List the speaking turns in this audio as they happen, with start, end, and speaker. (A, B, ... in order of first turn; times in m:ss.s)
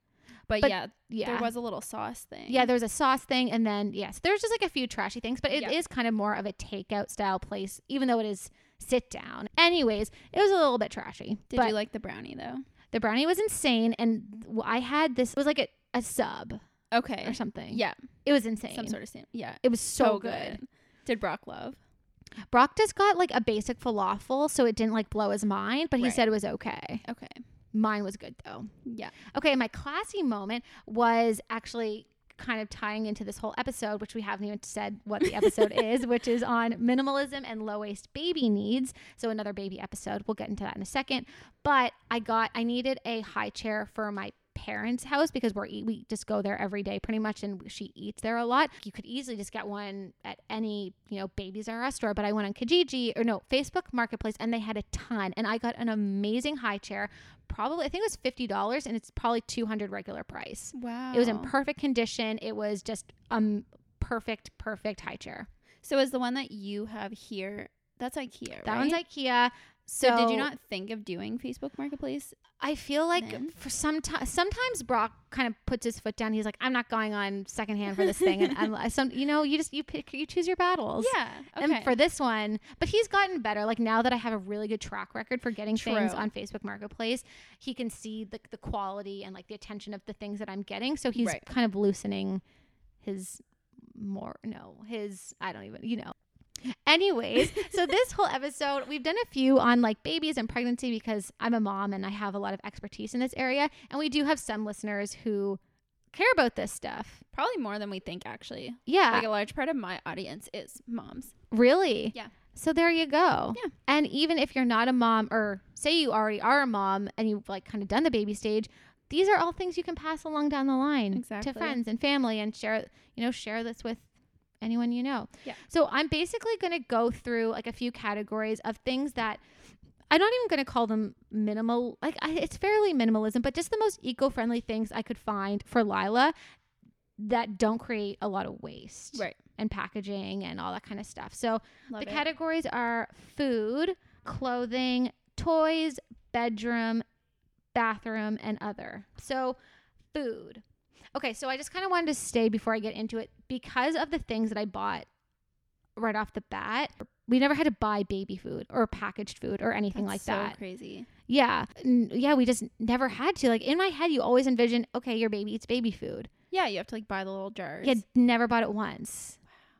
0:00.5-0:02.7 A
0:00.6-0:01.5 B
0:02.5-0:11.8 B
0:11.5-0:12.6 A
0:12.9-0:16.6 B
0:16.9-0:18.0 A
0:17.2-0:19.0 B
0:18.7-0:21.8 A
0:19.6-0:20.6 B
0:22.5-0:27.0 B
0:26.0-0:26.2 A
0:27.0-0:27.4 A
0:27.7-0:28.7 B
0:28.8-0:29.1 A
0:29.3-1:05.5 B
1:00.7-1:01.5 A
1:05.8-1:09.0 A
1:08.6-1:10.5 B
1:10.0-1:12.4 A
1:12.6-1:32.4 B
1:13.2-1:13.5 A
1:18.0-1:18.6 A
1:21.0-1:22.0 A
1:25.7-1:26.3 A
1:31.2-1:31.4 A
1:33.0-1:36.1 B
1:36.8-1:45.6 B
1:46.1-1:47.2 B
1:47.3-1:51.3 A
1:48.9-1:49.3 B
1:51.5-2:04.1 B
2:01.1-2:01.8 A
2:04.6-2:09.4 B
2:10.1-2:16.3 B
2:17.2-2:27.0 B
2:21.9-2:22.2 A
2:27.7-2:29.6 B
2:30.1-2:30.6 B
2:31.1-2:35.1 B
2:36.0-2:40.6 B
2:39.9-2:41.1 A
2:41.3-2:46.3 B
2:46.5-2:48.0 A
2:47.8-2:49.4 B